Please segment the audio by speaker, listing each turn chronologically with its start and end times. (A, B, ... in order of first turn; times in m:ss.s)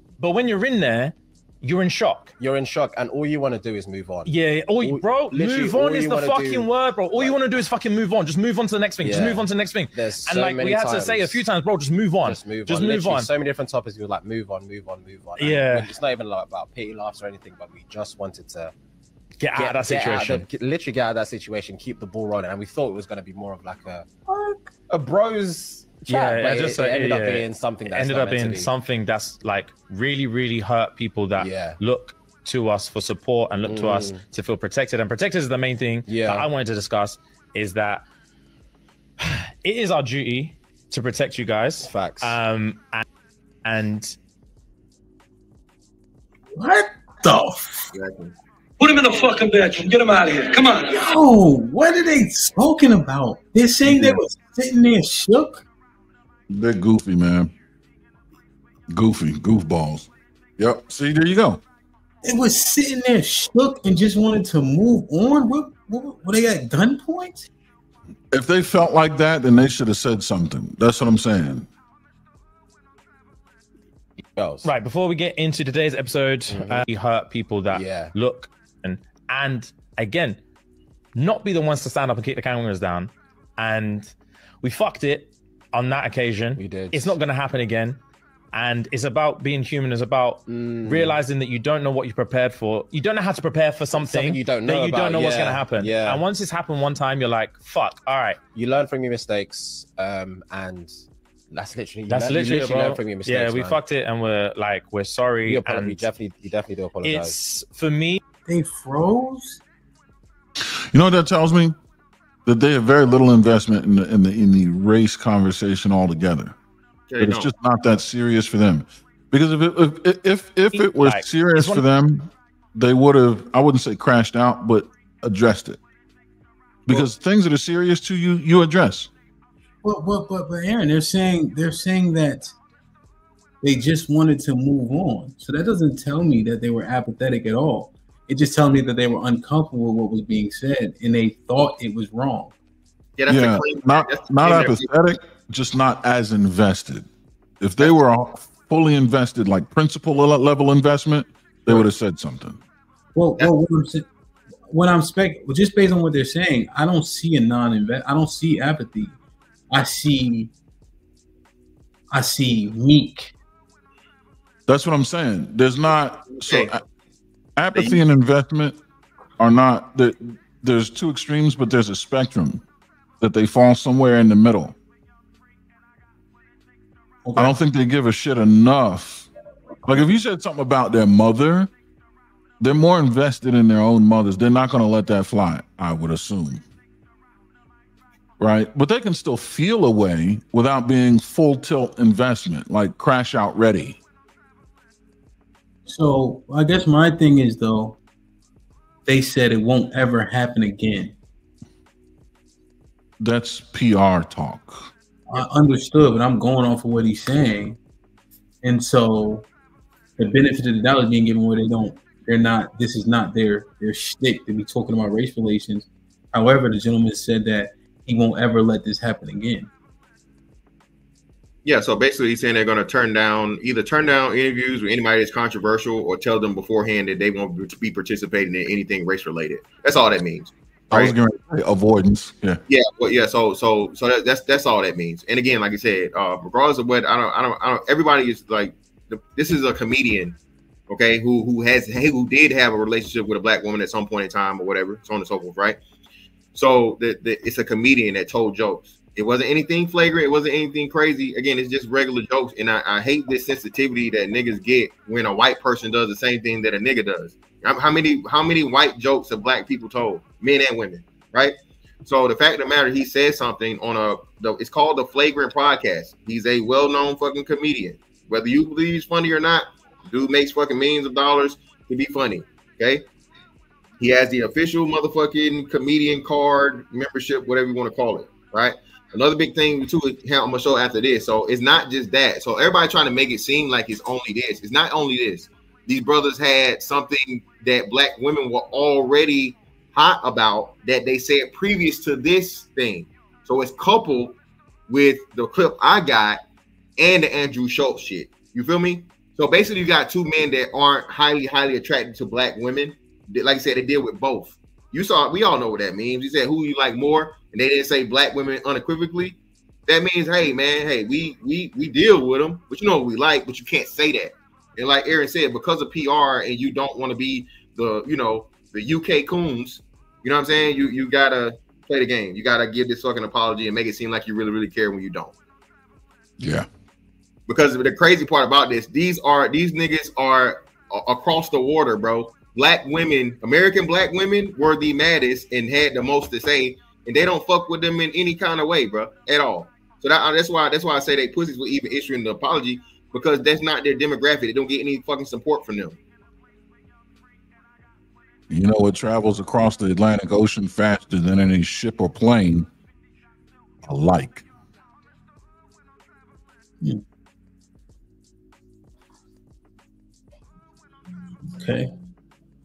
0:00.2-0:02.3 A
0:02.4-0:07.4 B
0:04.3-0:13.3 A
0:09.0-0:11.4 B
0:12.2-0:18.7 B
0:15.4-0:15.9 A
0:19.4-0:20.5 A
0:19.6-0:24.1 B
0:24.3-0:24.7 C
0:24.9-0:28.7 B
0:26.1-0:38.0 A
0:31.4-0:31.8 B
0:33.7-0:34.2 B
0:36.1-0:36.5 B
0:39.2-0:43.0 A
0:41.8-0:42.4 B
0:43.6-0:44.2 A
0:46.6-0:47.8 C
0:47.9-0:48.3 D
0:48.8-0:51.0 E
0:50.9-0:55.6 C
0:53.9-0:54.2 D
0:56.5-0:57.5 F
0:58.9-1:01.6 F
1:02.2-1:07.5 C
1:08.3-1:11.7 F
1:14.4-1:14.7 B
1:14.6-1:20.4 A
1:16.5-1:16.9 B
1:17.7-1:18.1 B
1:21.2-1:28.0 A
1:26.6-1:27.2 B
1:28.5-1:38.4 A
1:30.5-1:31.2 B
1:33.9-1:36.2 B
1:38.6-1:40.9 B
1:41.5-1:43.8 B
1:42.1-1:46.1 A
1:45.5-1:47.4 B
1:47.0-1:48.2 A
1:48.5-1:49.6 C
1:50.9-1:51.8 F
1:52.5-1:56.6 F
1:57.1-1:57.5 D
1:57.2-2:05.8 F
2:00.7-2:01.8 A
2:06.9-2:09.1 F
2:09.8-2:12.5 C
2:13.6-2:22.5 C
2:23.2-2:24.9 D
2:23.3-2:27.1 F
2:27.6-2:32.6 F
2:33.2-2:34.1 C
2:34.7-2:39.2 C
2:39.7-2:40.5 C
2:42.1-2:43.3 C
2:44.7-2:46.8 F
2:46.3-2:46.7 D
2:47.6-2:48.8 F
2:47.7-2:48.0 D
2:49.4-2:52.6 F
2:53.2-2:54.8 F
2:57.2-2:57.6 C
2:57.4-2:59.3 F
2:59.8-3:01.7 F
3:02.6-3:06.6 F
3:08.4-3:14.0 F
3:15.9-3:18.0 C
3:19.1-3:21.2 C
3:23.2-3:24.9 F
3:25.3-3:27.8 C
3:28.6-3:29.5 C
3:30.2-3:39.7 C
3:41.6-3:51.2 D
3:50.9-3:52.6 F
3:52.7-4:00.4 D
4:00.9-4:05.8 D
4:06.5-4:33.0 D
4:34.0-4:56.4 D
4:57.0-5:25.3 D
5:26.4-5:26.7 F
5:27.5-5:46.0 D
5:48.5-5:52.7 F
5:53.8-5:54.4 F
6:01.5-6:01.9 C